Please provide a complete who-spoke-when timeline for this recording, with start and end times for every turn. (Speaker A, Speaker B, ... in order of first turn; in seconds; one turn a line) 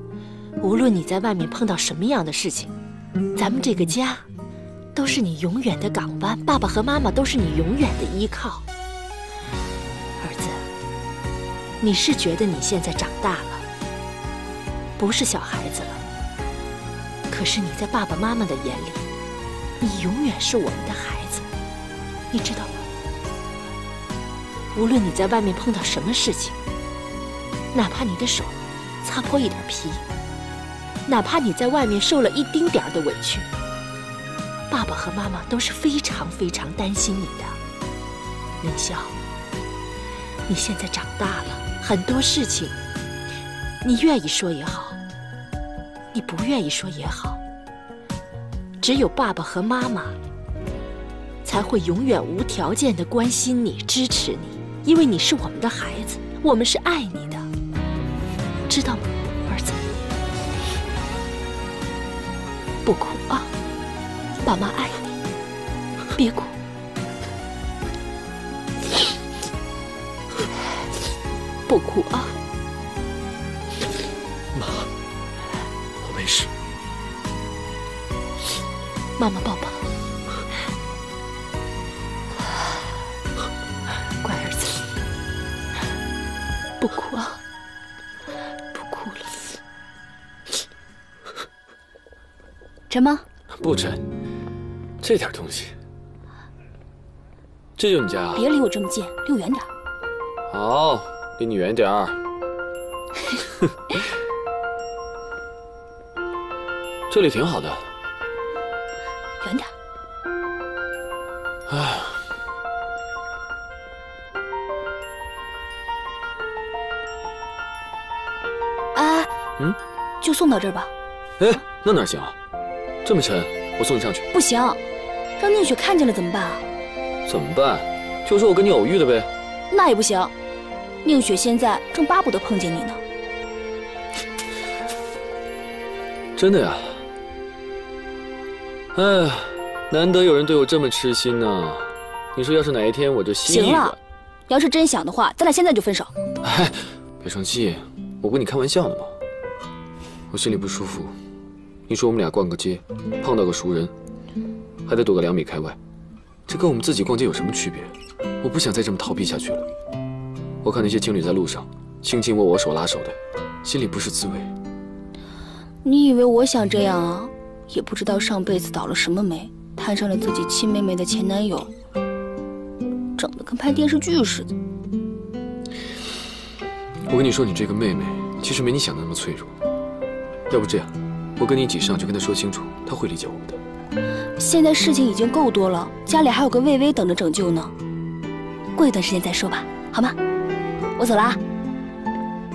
Speaker A: 0.6-2.7
Speaker A: 3.4-4.2
Speaker A: 5.0-8.7
Speaker A: 10.2-10.7
Speaker A: 11.8-13.7
Speaker A: 15.0-16.0
Speaker A: 17.3-19.1
Speaker A: 19.8-21.5
Speaker A: 22.3-22.9
Speaker A: 24.7-26.6
Speaker A: 27.7-30.0
Speaker A: 31.1-33.5
Speaker A: 34.7-37.6
Speaker A: 38.6-39.2
Speaker A: 40.5-42.8
Speaker A: 43.8-45.0
Speaker A: 46.1-47.4
Speaker A: 48.8-50.2
Speaker A: 51.4-57.5
Speaker A: 58.7-59.8
Speaker A: 62.9-63.5
Speaker A: 64.4-65.2
Speaker A: 66.2-66.5
Speaker A: 71.7-72.3
Speaker A: 79.2-79.9
Speaker A: 84.2-84.9
Speaker A: 86.8-87.4
Speaker A: 88.7-89.6
Speaker B: 92.9-93.2
Speaker C: 93.5-94.0
Speaker C: 95.0-95.8
Speaker C: 97.8-98.5
Speaker B: 98.3-99.7
Speaker C: 100.5-102.2
Speaker C: 107.1-107.9
Speaker B: 109.4-109.7
Speaker C: 111.7-112.2
Speaker B: 119.0-119.3
Speaker B: 120.2-120.9
Speaker C: 121.4-122.4
Speaker C: 123.0-124.3
Speaker B: 124.3-124.8
Speaker B: 125.4-126.7
Speaker C: 127.3-129.3
Speaker B: 129.7-130.3
Speaker B: 131.0-133.0
Speaker C: 136.4-137.1
Speaker C: 138.9-144.0
Speaker B: 143.4-144.0
Speaker B: 144.5-146.1
Speaker C: 146.4-149.2
Speaker C: 150.3-151.1
Speaker C: 151.9-153.9
Speaker C: 154.9-155.8
Speaker C: 156.5-159.7
Speaker C: 160.6-164.5
Speaker B: 165.8-171.7
Speaker B: 173.2-174.5
Speaker C: 177.1-179.6
Speaker C: 180.5-183.6
Speaker B: 184.4-187.7
Speaker B: 188.8-190.2
Speaker B: 191.0-191.4